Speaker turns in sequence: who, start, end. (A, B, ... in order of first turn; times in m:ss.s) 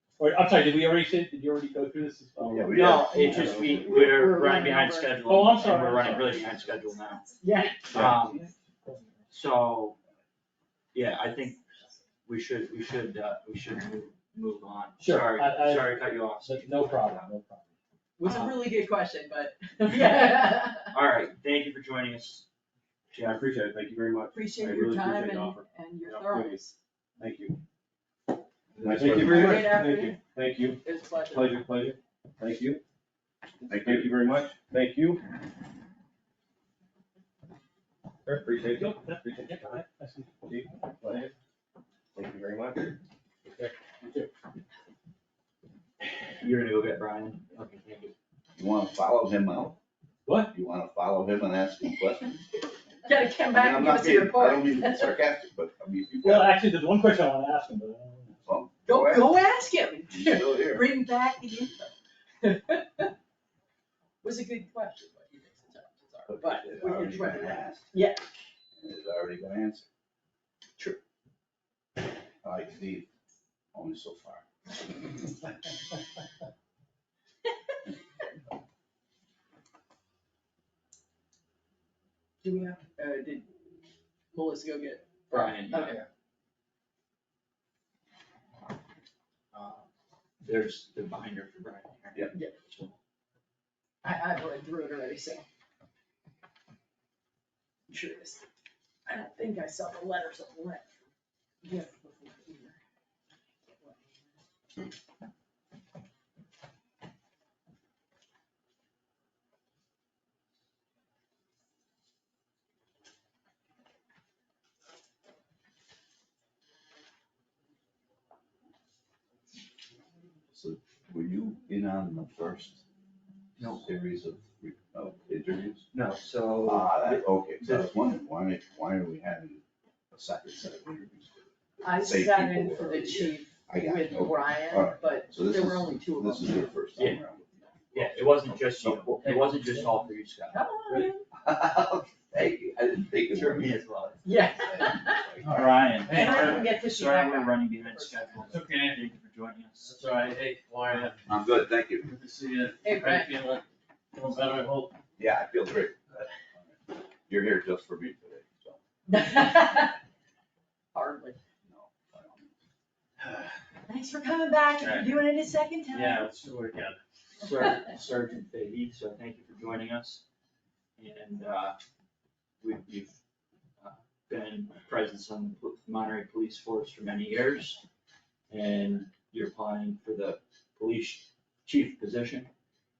0:00.2-0:02.9 A
0:02.4-0:04.6 B
0:02.5-0:03.5 C
0:02.7-0:07.3 D
0:03.1-0:05.2 E
0:05.2-0:06.6 A
0:07.2-0:07.9 E
0:07.9-0:08.5 D
0:07.9-0:09.2 A
0:09.3-0:10.0 D
0:10.9-0:11.6 D
0:12.2-0:17.3 D
0:15.0-0:17.7 A
0:18.2-0:20.9 E
0:20.0-0:20.3 D
0:20.9-0:22.5 D
0:23.1-0:23.5 D
0:23.1-0:26.6 C
0:24.3-0:26.8 E
0:27.2-0:27.6 C
0:28.8-0:29.8 B
0:28.8-0:32.8 C
0:29.3-0:30.2 E
0:30.8-0:31.6 E
0:33.6-0:35.2 C
0:33.7-0:34.1 B
0:38.2-0:39.8 C
0:39.0-0:40.3 A
0:40.4-0:41.3 C
0:42.1-0:44.3 C
0:46.4-0:48.1 D
0:48.6-0:49.8 B
0:50.2-0:50.5 A
0:50.5-0:52.7 B
0:53.0-0:55.2 E
0:53.5-0:56.5 B
0:56.2-0:58.4 A
0:58.4-0:59.3 B
0:58.8-1:03.1 E
1:00.1-1:00.8 B
1:04.2-1:08.2 E
1:06.3-1:07.9 B
1:08.8-1:09.9 B
1:12.4-1:13.1 B
1:13.7-1:14.4 B
1:22.4-1:23.4 E
1:24.3-1:26.0 E
1:25.3-1:26.0 D
1:29.5-1:29.9 D
1:30.4-1:33.0 D
1:34.0-1:35.4 E
1:37.9-1:38.4 E
1:39.0-1:40.9 E
1:41.6-1:42.8 E
1:43.6-1:44.3 E
2:00.5-2:02.8 B
2:03.6-2:03.8 D
2:03.6-2:05.8 B
2:05.9-2:07.9 D
2:06.6-2:19.3 B
2:11.8-2:16.8 E
2:17.9-2:20.7 D
2:19.3-2:19.7 F
2:20.5-2:21.2 E
2:21.3-2:23.8 B
2:23.2-2:24.3 D
2:24.2-2:25.5 E
2:24.6-2:25.4 B
2:25.4-2:29.9 D
2:25.5-2:26.6 F
2:26.0-2:28.5 E
2:28.4-2:29.0 F
2:29.8-2:31.2 F
2:31.3-2:32.0 B
2:32.0-2:35.0 F
2:32.8-2:33.3 E
2:35.2-2:36.3 B
2:37.3-2:38.8 B
2:39.1-2:40.0 E
2:40.9-2:41.4 E
2:41.7-2:42.5 B
2:43.9-2:46.3 E
2:44.8-2:45.1 F
2:45.9-2:47.0 F
2:47.4-2:50.2 D
2:51.0-2:51.8 D
2:52.6-2:53.2 D
2:53.8-2:57.8 D
2:58.5-3:02.5 D